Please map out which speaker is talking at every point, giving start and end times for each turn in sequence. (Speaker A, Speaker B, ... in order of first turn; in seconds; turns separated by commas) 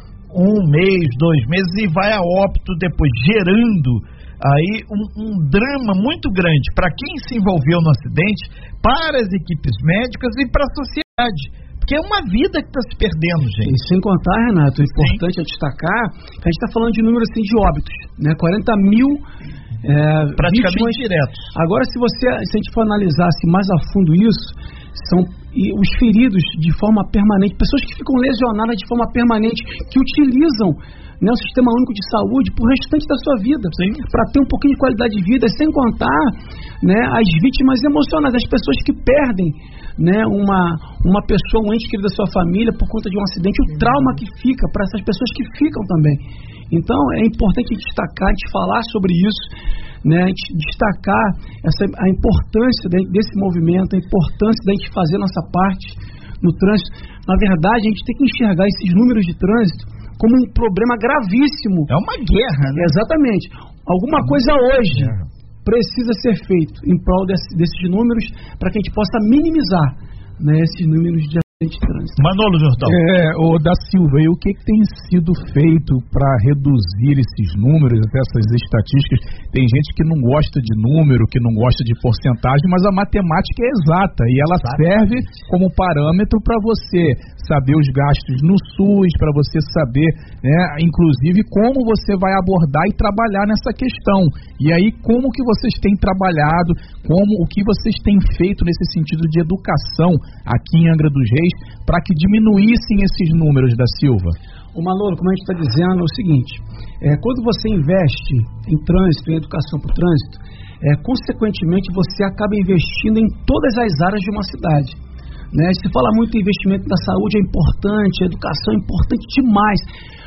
Speaker A: 0.3-13.8, Speaker B: 13.6-19.2, Speaker A: 14.9-15.2, Speaker B: 19.8-21.0, Speaker A: 20.4-21.5, Speaker B: 21.5-49.5, Speaker A: 33.8-34.0, Speaker B: 50.0-61.9, Speaker A: 61.9-62.9, Speaker B: 62.7-72.2, Speaker A: 64.2-65.3, Speaker A: 72.2-73.0, Speaker C: 72.8-104.3, Speaker A: 84.4-85.5, Speaker B: 104.7-115.0, Speaker B: 115.5-119.8